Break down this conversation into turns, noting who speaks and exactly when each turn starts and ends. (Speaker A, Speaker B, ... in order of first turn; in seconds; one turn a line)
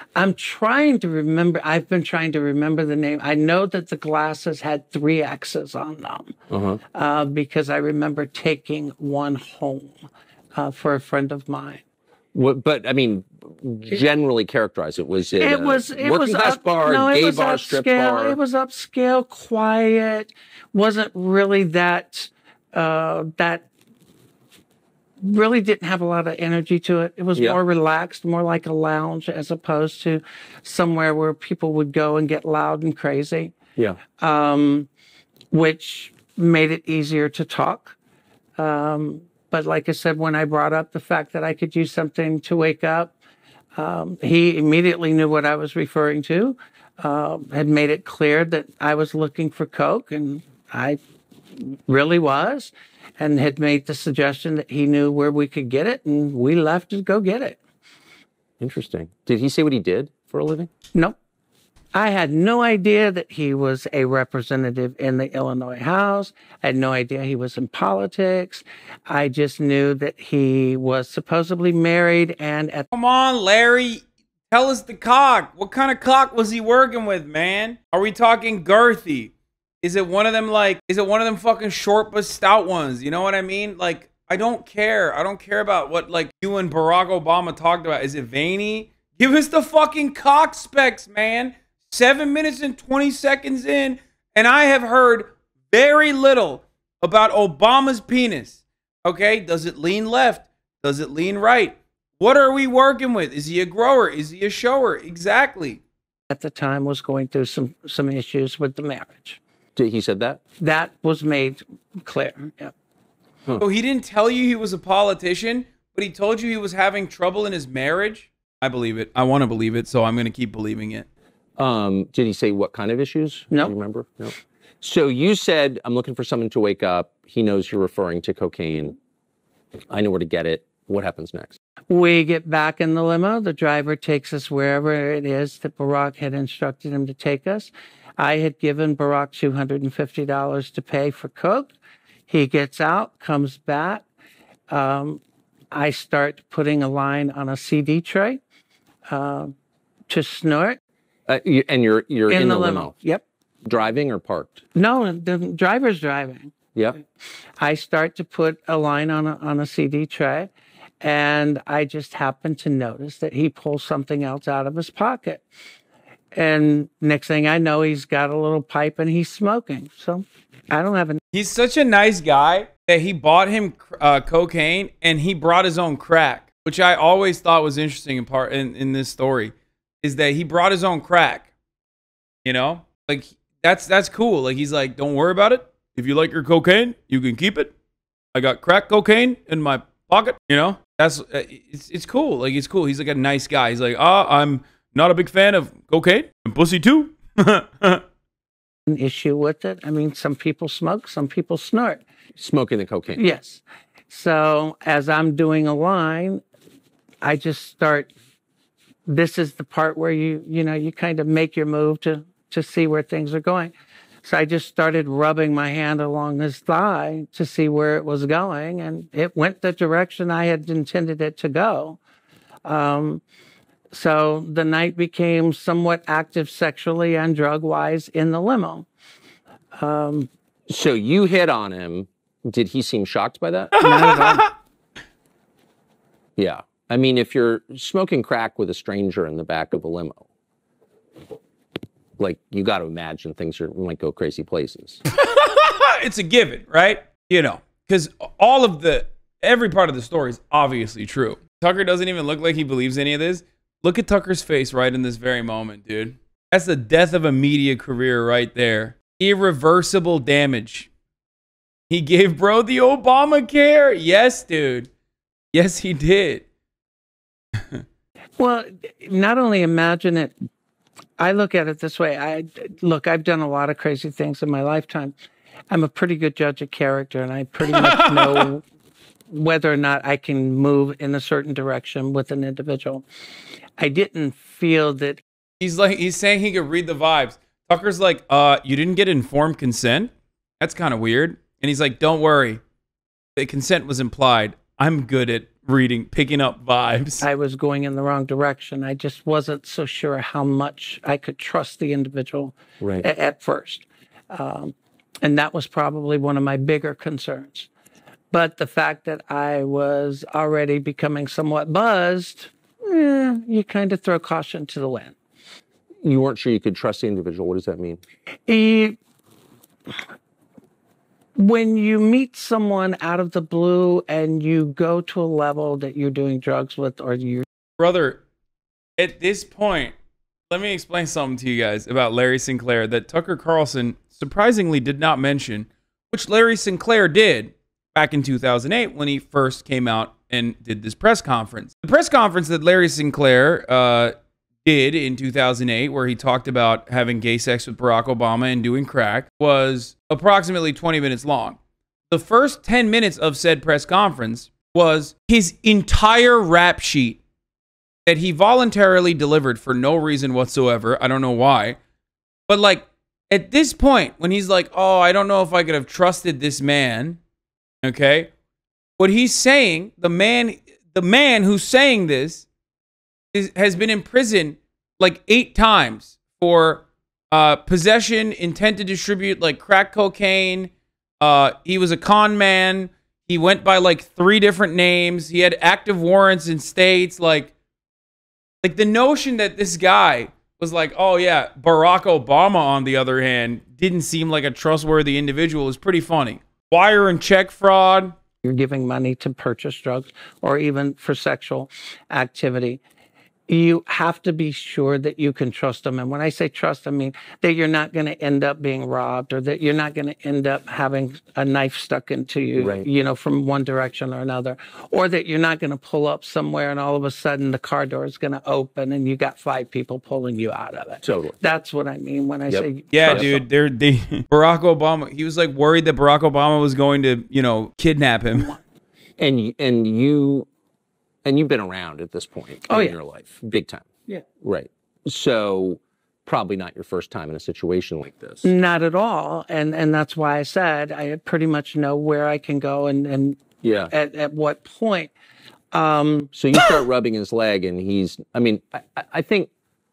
Speaker A: 0.2-6.3
Speaker B: 6.5-6.8
Speaker A: 6.9-9.9
Speaker A: 10.6-11.8
Speaker B: 12.3-18.4
Speaker A: 15.4-23.7
Speaker A: 25.2-33.6
Speaker A: 34.2-34.9
Speaker A: 35.5-38.0
Speaker A: 38.6-43.1
Speaker A: 43.8-51.0
Speaker A: 51.6-57.6
Speaker B: 58.6-60.7
Speaker A: 61.9-72.9
Speaker C: 72.9-105.8
Speaker A: 106.3-109.4
Speaker B: 109.8-110.4
Speaker A: 110.6-112.7
Speaker C: 113.6-121.1
Speaker B: 121.6-129.0
Speaker B: 129.9-131.6
Speaker A: 131.9-141.7
Speaker A: 142.3-144.0
Speaker A: 144.7-145.2
Speaker A: 145.7-148.4
Speaker A: 149.1-149.5
Speaker A: 150.1-150.8
Speaker B: 151.3-152.9
Speaker A: 152.3-153.2
Speaker B: 153.7-154.6
Speaker A: 154.8-156.5
Speaker A: 157.6-160.5
Speaker A: 161.0-165.4
Speaker A: 166.3-171.2
Speaker C: 171.3-181.5
Speaker C: 182.4-187.7
Speaker C: 188.3-198.0
Speaker A: 198.9-202.0
Speaker B: 202.4-203.2
Speaker A: 203.2-206.4
Speaker A: 207.2-208.1
Speaker A: 209.1-213.7
Speaker A: 214.2-222.0
Speaker A: 222.7-223.2
Speaker A: 223.9-228.9
Speaker A: 229.8-230.3
Speaker B: 230.7-233.9
Speaker C: 233.8-234.5
Speaker A: 233.8-234.5
Speaker B: 236.4-240.3
Speaker B: 242.2-245.0
Speaker C: 245.1-260.9
Speaker C: 261.9-264.9
Speaker C: 265.5-266.4
Speaker A: 268.4-270.4
Speaker A: 271.2-275.2
Speaker A: 275.7-278.6
Speaker C: 277.7-278.5
Speaker A: 279.3-283.1
Speaker A: 283.8-285.2
Speaker C: 285.6-292.6
Speaker C: 293.4-297.2
Speaker A: 297.2-307.7
Speaker B: 302.8-303.1
Speaker A: 308.3-315.2
Speaker B: 316.0-318.0
Speaker A: 318.5-319.0
Speaker A: 321.4-327.4
Speaker C: 327.8-328.2
Speaker C: 329.0-329.9
Speaker C: 330.5-344.1
Speaker C: 344.6-351.6
Speaker C: 352.1-357.2
Speaker C: 358.1-361.8
Speaker C: 362.5-367.2
Speaker C: 367.8-368.3
Speaker C: 369.0-372.5
Speaker C: 373.3-387.5
Speaker C: 388.6-398.1
Speaker A: 398.4-402.8
Speaker A: 403.5-423.4
Speaker B: 412.6-412.9
Speaker B: 421.0-421.4
Speaker B: 422.5-423.4
Speaker C: 422.9-428.6
Speaker B: 429.2-430.5
Speaker B: 431.2-433.9
Speaker A: 432.7-433.0
Speaker B: 434.4-438.5
Speaker A: 438.4-445.1
Speaker B: 443.6-443.9
Speaker A: 445.7-446.3
Speaker B: 446.3-449.5